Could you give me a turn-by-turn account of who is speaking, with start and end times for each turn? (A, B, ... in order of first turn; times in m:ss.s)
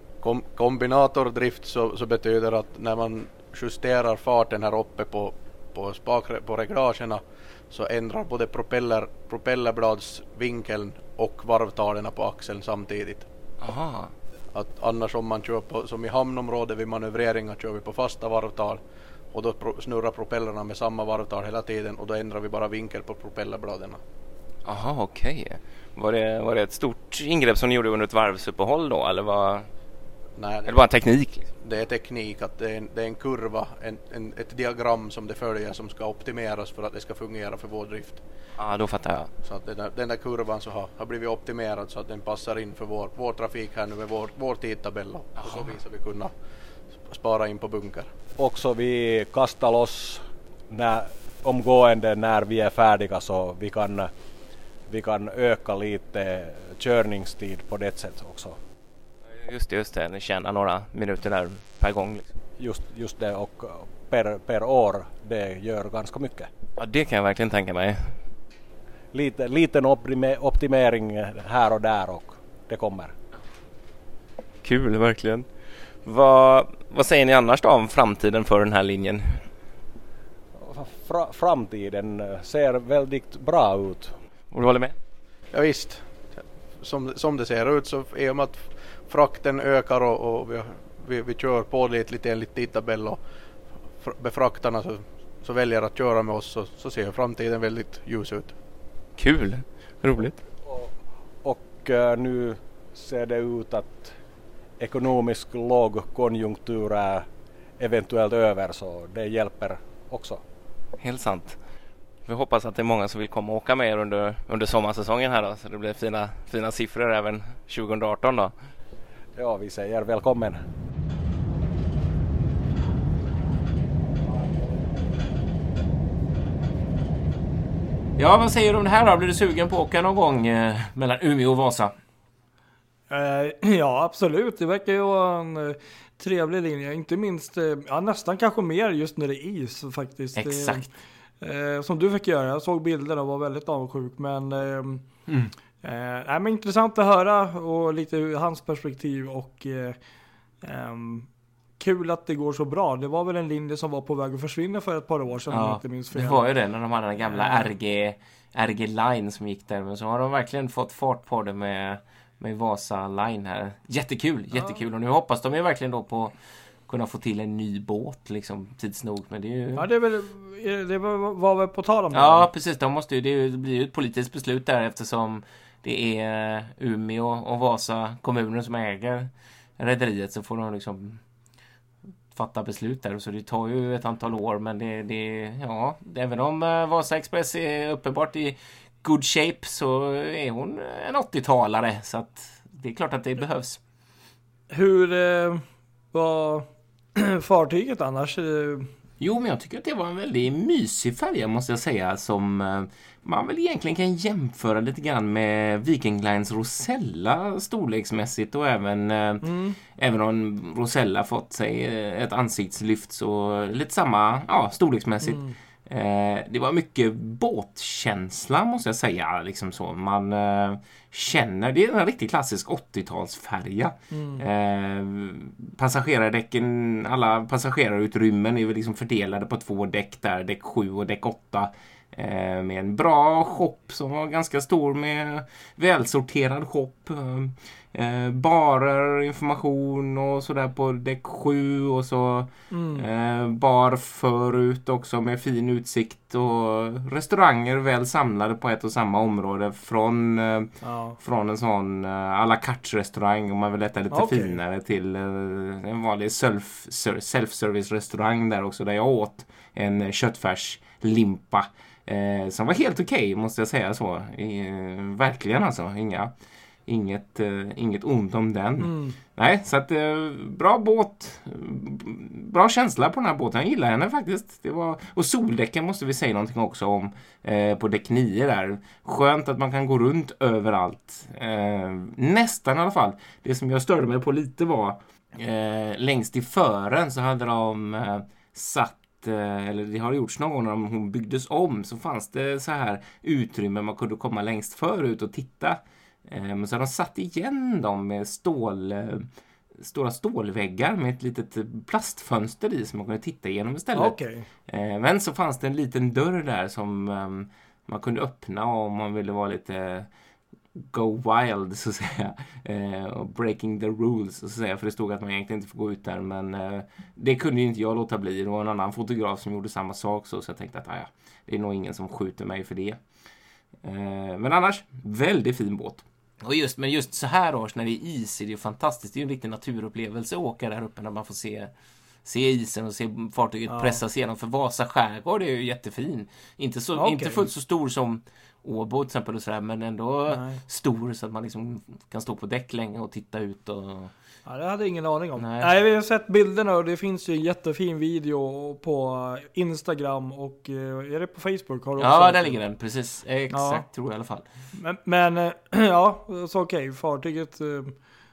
0:00.2-0:13.3 A
0:13.6-0:14.1 B
0:14.5-0:18.8 A
0:19.3-0:24.0 A
0:24.6-0:29.7 B
0:30.4-0:31.0 A
0:30.6-0:31.5 B
0:31.6-0:38.2 A
0:38.6-0:39.3 B
0:39.4-0:46.3 A
0:47.0-0:48.1 A
0:48.4-0:54.1 C
0:54.9-0:58.6 C
0:59.3-1:02.3 B
1:02.6-1:06.5 C
1:06.8-1:08.2 B
1:09.1-1:13.2 C
1:14.6-1:15.5 B
1:16.0-1:19.5 B
1:20.5-1:24.2 C
1:24.5-1:25.0 B
1:25.5-1:33.2 A
1:34.0-1:38.6 A
1:39.2-1:40.4 B
1:40.6-1:44.2 C
1:44.8-1:47.3 C
1:47.8-1:50.4 C
1:51.0-1:51.6 B
1:52.3-1:58.5 B
1:59.4-2:00.6 C
2:08.2-2:12.0 D
2:13.1-2:20.9 E
2:20.4-2:20.9 D
2:21.4-2:25.1 E
2:25.3-2:25.5 D
2:25.8-2:30.0 E
2:30.6-2:31.3 E
2:31.8-2:36.4 E
2:35.5-2:46.4 D
2:37.2-2:37.7 E
2:46.9-2:49.9 D
2:49.8-2:52.5 E
2:52.1-3:01.2 D
3:02.3-3:13.8 D
3:14.7-3:18.9 E
3:19.2-4:26.3 D
3:29.4-3:29.8 E
3:35.2-3:35.5 E
3:44.1-3:44.4 E
4:02.7-4:03.1 E
4:10.8-4:11.2 E
4:14.1-4:14.6 E
4:26.9-4:59.3 D
4:28.8-4:29.2 E
4:59.8-5:10.1 D
5:03.9-5:04.5 E
5:10.8-5:23.0 D
5:23.8-5:31.7 D
5:32.2-5:44.1 D
5:33.7-5:34.0 E
5:37.0-5:37.4 E
5:40.3-5:40.6 E
5:44.5-5:52.6 E
5:45.4-5:45.7 D
5:52.0-5:54.5 D
5:53.5-5:53.8 E
5:54.8-5:58.0 E